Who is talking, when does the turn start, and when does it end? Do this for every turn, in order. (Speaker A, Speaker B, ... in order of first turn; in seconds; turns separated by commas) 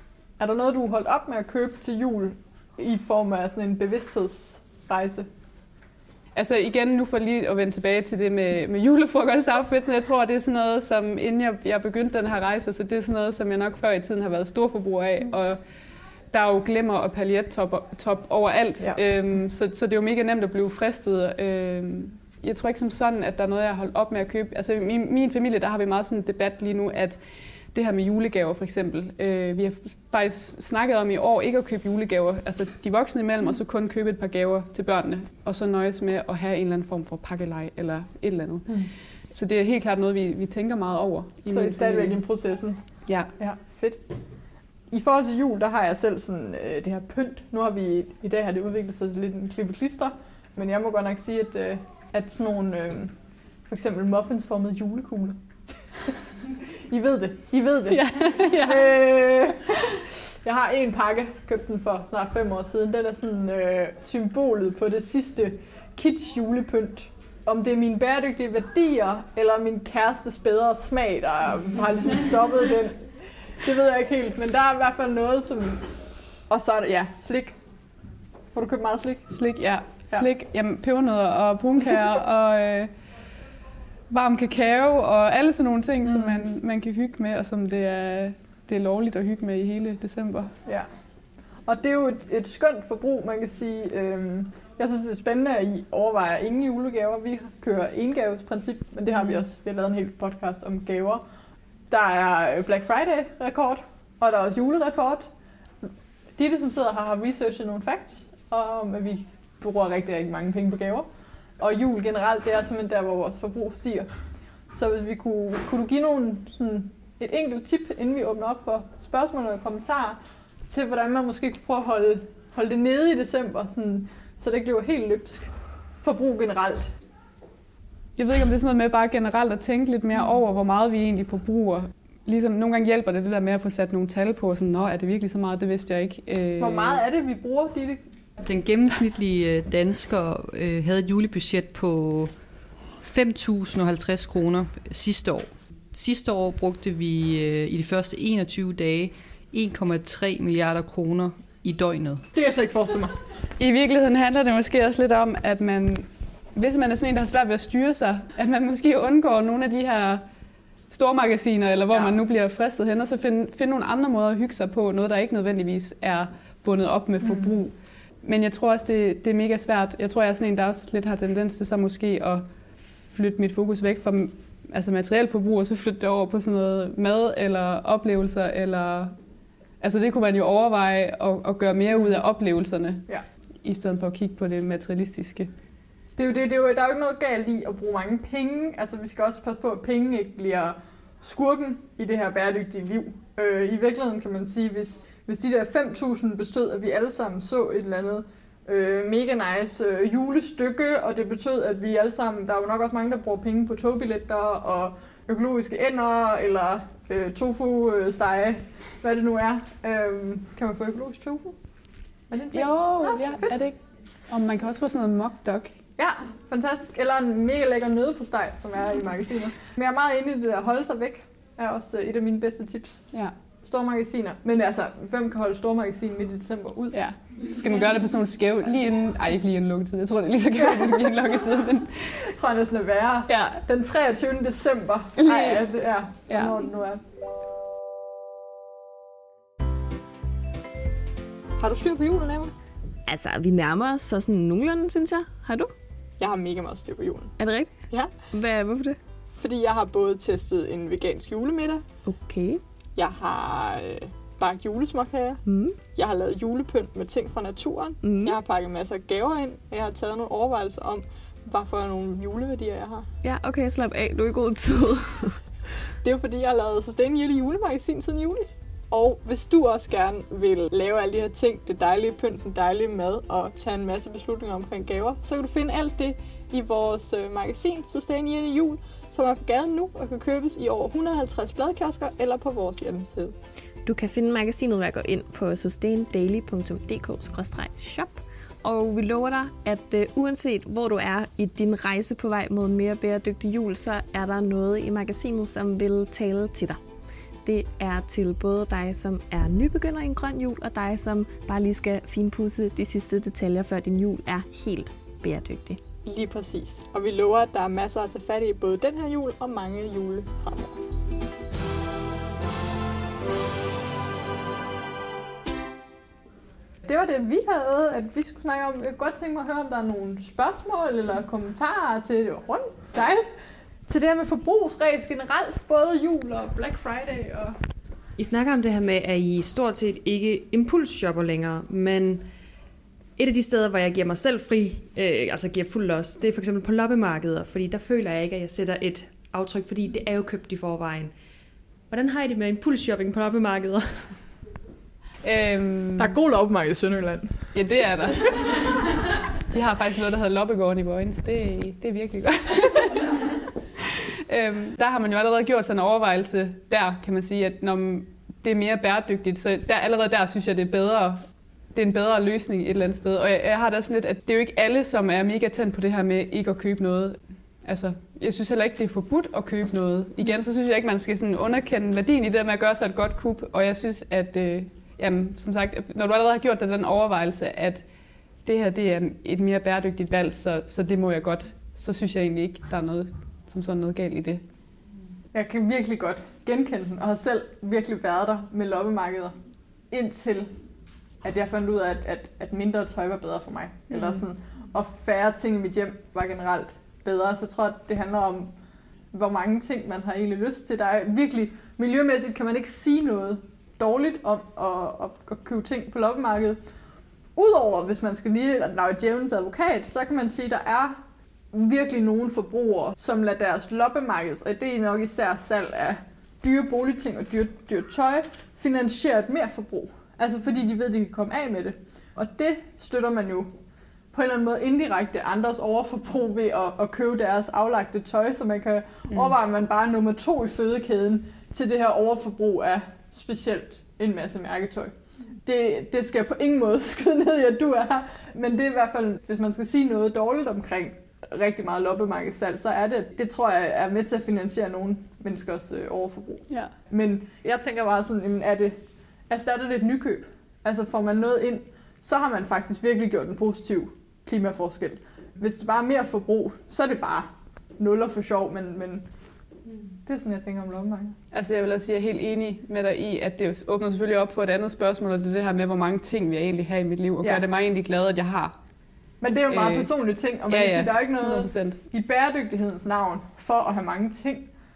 Speaker A: 0.4-5.3, Speaker B: 6.3-15.6, Speaker B: 16.3-27.2, Speaker B: 27.7-42.2, Speaker A: 41.5-42.8, Speaker B: 43.1-43.3, Speaker A: 43.4-44.0, Speaker A: 44.9-53.1, Speaker A: 53.7-55.4, Speaker A: 56.1-75.9, Speaker B: 57.9-58.9, Speaker A: 76.5-77.6, Speaker A: 78.5-79.3, Speaker B: 79.3-82.9, Speaker B: 84.1-90.5, Speaker A: 86.0-86.5, Speaker A: 91.6-101.2, Speaker A: 101.9-105.2, Speaker A: 105.8-114.1, Speaker A: 114.7-126.9, Speaker B: 128.2-137.0, Speaker A: 136.6-138.1, Speaker C: 138.4-142.3, Speaker C: 143.0-152.3, Speaker A: 152.3-153.2, Speaker B: 153.6-160.2, Speaker B: 160.9-172.4, Speaker A: 161.9-162.2, Speaker A: 167.2-167.5, Speaker B: 173.0-179.2, Speaker B: 179.8-183.1, Speaker B: 183.6-185.5, Speaker A: 186.1-211.6, Speaker A: 212.3-213.6, Speaker B: 212.5-213.8, Speaker B: 214.3-215.7, Speaker A: 216.0-223.1, Speaker A: 223.6-227.0, Speaker B: 226.9-232.3, Speaker A: 230.6-231.3, Speaker A: 232.1-237.0, Speaker B: 233.3-233.6, Speaker B: 235.2-235.7, Speaker B: 236.3-236.6, Speaker A: 241.6-242.5, Speaker D: 243.1-245.7, Speaker A: 246.2-247.3, Speaker D: 247.4-247.7, Speaker D: 248.3-249.0, Speaker A: 249.3-251.8, Speaker D: 252.1-252.6, Speaker A: 252.9-255.4, Speaker D: 255.4-255.8, Speaker A: 255.9-263.1, Speaker D: 258.0-258.4, Speaker D: 263.2-265.4, Speaker A: 266.0-283.4, Speaker D: 283.9-296.8, Speaker D: 297.4-305.8, Speaker A: 306.1-310.8, Speaker A: 316.9-323.2, Speaker A: 323.9-327.6, Speaker E: 328.2-332.2, Speaker E: 333.2-341.1, Speaker E: 341.9-344.2, Speaker B: 345.2-346.2, Speaker A: 346.0-347.5, Speaker B: 347.5-348.5, Speaker B: 349.5-353.1, Speaker B: 353.9-361.2, Speaker B: 361.7-377.8, Speaker B: 378.4-384.4, Speaker A: 385.3-389.4, Speaker A: 389.9-390.5, Speaker A: 391.2-398.5, Speaker A: 399.1-406.6, Speaker A: 407.4-410.9, Speaker A: 411.5-423.5, Speaker A: 424.1-448.8, Speaker A: 449.3-459.1, Speaker A: 460.0-461.2, Speaker B: 461.3-468.6, Speaker A: 469.2-474.5, Speaker B: 469.5-469.9, Speaker B: 470.5-471.8